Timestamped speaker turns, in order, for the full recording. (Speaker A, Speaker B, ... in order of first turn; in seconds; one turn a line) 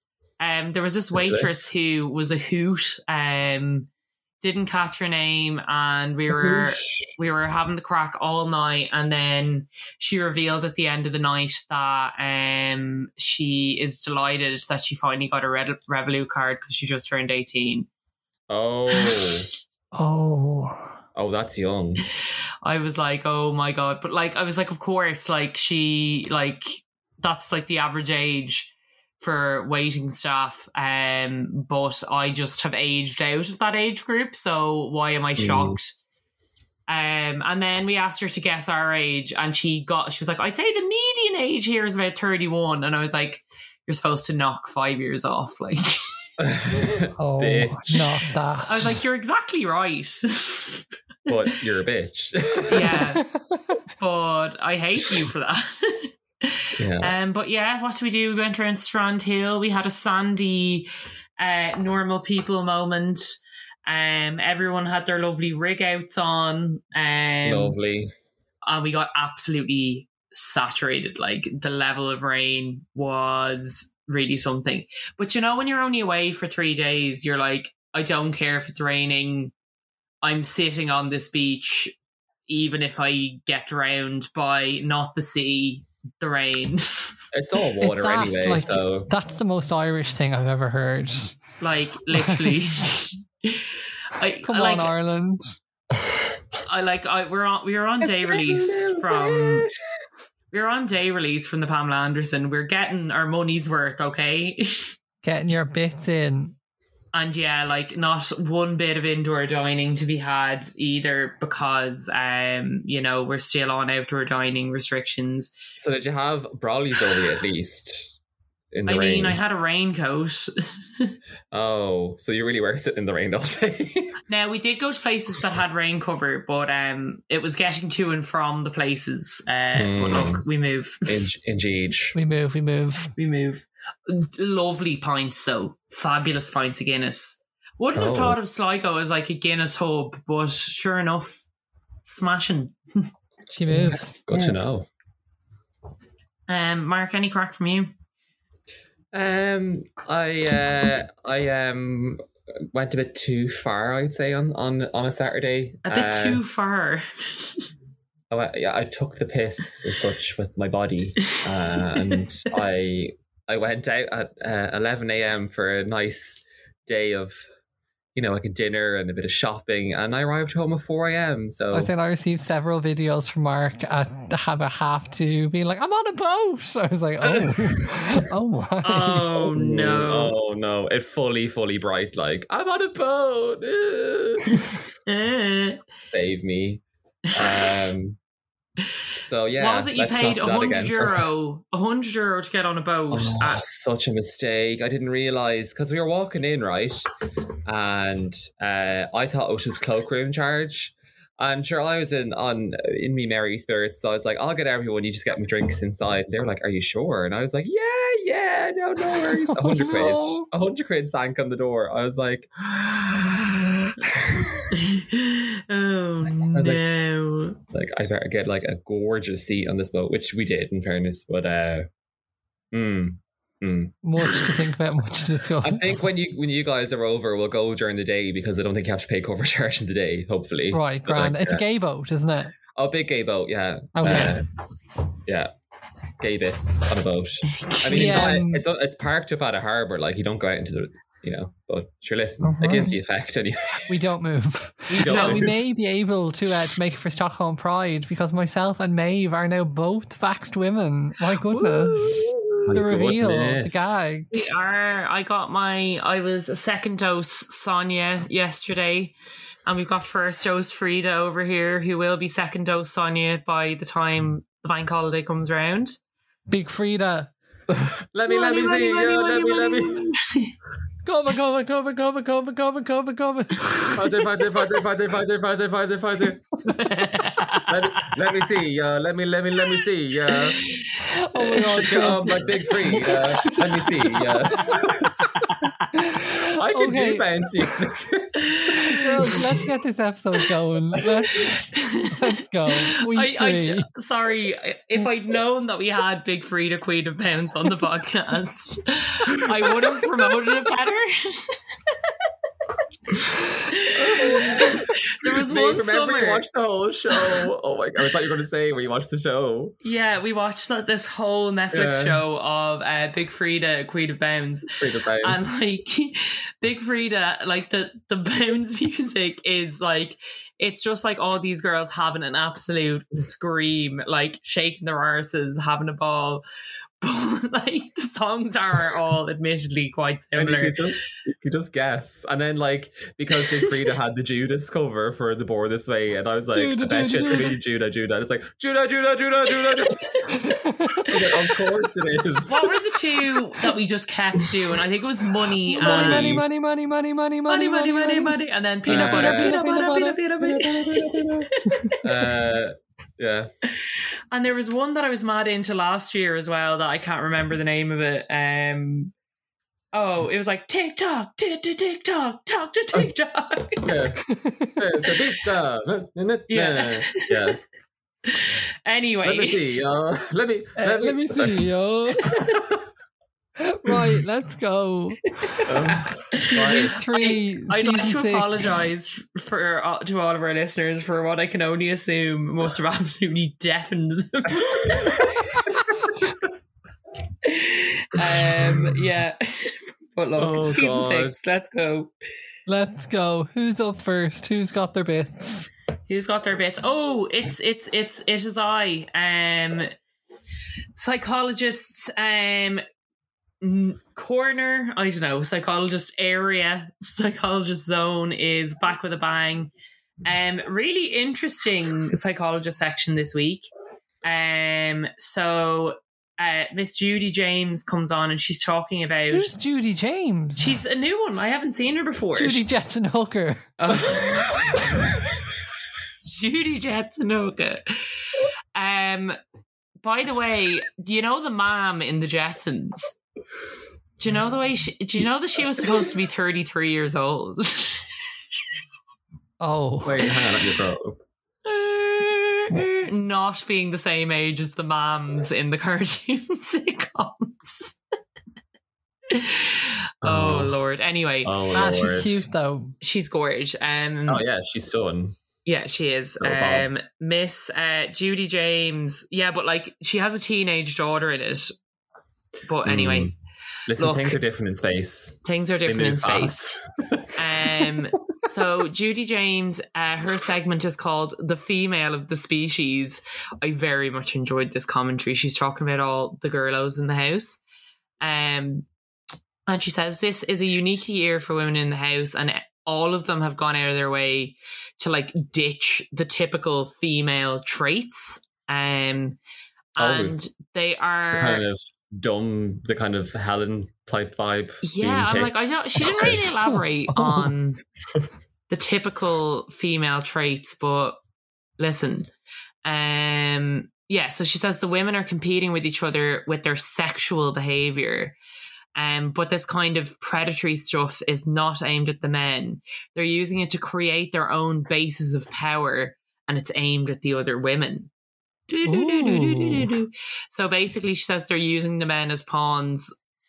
Speaker A: 0.4-3.9
Speaker B: 1.1-1.5
Speaker A: 4.4-17.9
Speaker B: 6.3-7.1
Speaker B: 18.5-19.5
Speaker A: 19.0-19.2
Speaker C: 19.9-20.9
Speaker B: 21.1-22.0
Speaker A: 22.6-36.0
Speaker B: 35.4-35.8
Speaker A: 36.9-46.0
Speaker B: 46.4-48.0
Speaker C: 47.2-49.0
Speaker A: 48.6-50.9
Speaker B: 51.3-53.1
Speaker A: 52.7-53.2
Speaker C: 53.5-53.8
Speaker A: 54.0-60.9
Speaker B: 56.8-57.1
Speaker A: 61.4-67.8
Speaker B: 67.4-68.1
Speaker A: 68.6-79.5
Speaker A: 80.2-81.9
Speaker A: 82.5-87.3
Speaker B: 87.3-89.1
Speaker C: 87.8-91.4
Speaker A: 91.6-94.9
Speaker C: 92.1-92.8
Speaker C: 94.4-95.6
Speaker A: 96.7-99.7
Speaker B: 98.0-99.7
Speaker A: 100.5-104.9
Speaker C: 105.2-106.5
Speaker A: 107.1-115.5
Speaker B: 115.8-118.1
Speaker B: 118.7-119.4
Speaker A: 118.9-121.1
Speaker B: 121.5-124.2
Speaker A: 124.3-131.2
Speaker B: 129.7-130.4
Speaker B: 131.1-132.1
Speaker C: 132.1-133.1
Speaker A: 133.2-141.5
Speaker B: 137.9-138.4
Speaker A: 142.0-143.1
Speaker C: 143.5-144.2
Speaker B: 143.7-144.9
Speaker A: 146.5-147.9
Speaker B: 149.1-156.4
Speaker A: 155.8-157.7
Speaker B: 158.3-167.4
Speaker A: 161.3-162.2
Speaker B: 168.1-171.9
Speaker C: 171.7-179.4
Speaker B: 177.3-177.5
Speaker A: 178.8-180.3
Speaker B: 179.5-184.6
Speaker A: 184.5-185.8
Speaker B: 186.1-186.8
Speaker B: 187.3-188.2
Speaker B: 189.2-191.3
Speaker A: 189.6-193.6
Speaker B: 193.1-197.1
Speaker B: 197.7-214.7
Speaker C: 209.2-210.5
Speaker A: 214.7-217.6
Speaker B: 216.3-216.8
Speaker B: 217.7-221.9
Speaker B: 222.7-224.5
Speaker C: 224.0-226.1
Speaker B: 225.6-231.6
Speaker C: 230.7-232.5
Speaker B: 232.7-234.4
Speaker C: 233.9-234.4
Speaker A: 234.0-234.4
Speaker B: 235.3-235.5
Speaker B: 236.2-244.0
Speaker A: 237.5-238.3
Speaker C: 237.9-238.6
Speaker C: 242.4-243.0
Speaker C: 243.9-254.4
Speaker A: 244.9-245.5
Speaker B: 245.0-245.6
Speaker B: 251.9-254.0
Speaker A: 251.9-252.2
Speaker A: 254.3-266.0
Speaker C: 266.5-267.3
Speaker B: 267.7-270.2
Speaker A: 268.3-270.5
Speaker C: 271.0-274.0
Speaker B: 273.9-276.4
Speaker A: 276.6-278.1
Speaker B: 277.7-280.6
Speaker A: 280.3-282.1
Speaker C: 281.0-282.5
Speaker B: 281.7-285.1
Speaker A: 282.9-283.9
Speaker A: 285.4-285.9
Speaker C: 285.9-287.3
Speaker B: 286.5-289.6
Speaker A: 288.5-289.4
Speaker C: 288.9-293.9
Speaker A: 291.7-302.1
Speaker A: 303.7-306.4
Speaker B: 303.9-309.8
Speaker A: 309.8-314.7
Speaker B: 311.7-312.2
Speaker B: 314.8-315.7
Speaker A: 315.2-326.4
Speaker A: 327.0-330.8
Speaker B: 330.4-340.1
Speaker C: 336.5-337.6
Speaker A: 339.7-340.5
Speaker C: 340.4-341.1
Speaker B: 341.1-342.7
Speaker A: 342.4-346.4
Speaker C: 345.8-350.2
Speaker B: 345.8-346.5
Speaker A: 347.5-352.0
Speaker B: 348.9-349.6
Speaker B: 350.4-351.5
Speaker B: 352.0-353.5
Speaker A: 353.9-359.1
Speaker A: 359.9-363.9
Speaker B: 363.8-364.2
Speaker C: 364.3-364.8
Speaker B: 364.8-367.6
Speaker A: 366.5-367.6
Speaker A: 368.3-369.6
Speaker B: 369.2-371.7
Speaker C: 370.8-372.4
Speaker A: 372.3-372.6
Speaker C: 373.6-375.6
Speaker A: 375.5-385.3
Speaker B: 375.7-376.9
Speaker C: 376.5-378.5
Speaker A: 387.4-392.1
Speaker B: 390.4-391.4
Speaker C: 392.7-395.7
Speaker A: 396.1-399.9
Speaker A: 400.9-402.8
Speaker A: 403.6-409.7
Speaker A: 410.2-413.7
Speaker A: 414.2-419.5
Speaker C: 419.3-420.8
Speaker A: 420.6-422.6
Speaker C: 422.4-423.7
Speaker A: 423.8-424.5
Speaker A: 426.2-427.9
Speaker A: 428.7-429.4
Speaker A: 430.0-433.1
Speaker A: 434.2-438.1
Speaker C: 439.6-440.3
Speaker B: 440.0-441.2
Speaker A: 441.6-448.0
Speaker A: 449.3-451.7
Speaker B: 450.2-450.8
Speaker B: 451.4-452.5
Speaker C: 451.7-452.9
Speaker A: 453.0-454.4
Speaker B: 454.3-455.4
Speaker A: 455.6-461.7
Speaker B: 456.4-456.9
Speaker A: 462.6-463.3
Speaker B: 462.8-463.3
Speaker B: 463.9-467.3
Speaker A: 464.0-464.4
Speaker A: 465.4-466.8
Speaker A: 467.3-477.6
Speaker A: 478.2-478.9
Speaker A: 479.7-489.4
Speaker A: 489.9-491.6
Speaker B: 490.0-490.4
Speaker B: 491.3-496.4
Speaker A: 494.8-497.8
Speaker C: 497.1-497.5
Speaker A: 498.7-501.2
Speaker A: 501.8-502.3
Speaker A: 502.8-508.4
Speaker A: 508.9-518.1
Speaker A: 518.7-523.1
Speaker C: 518.9-519.9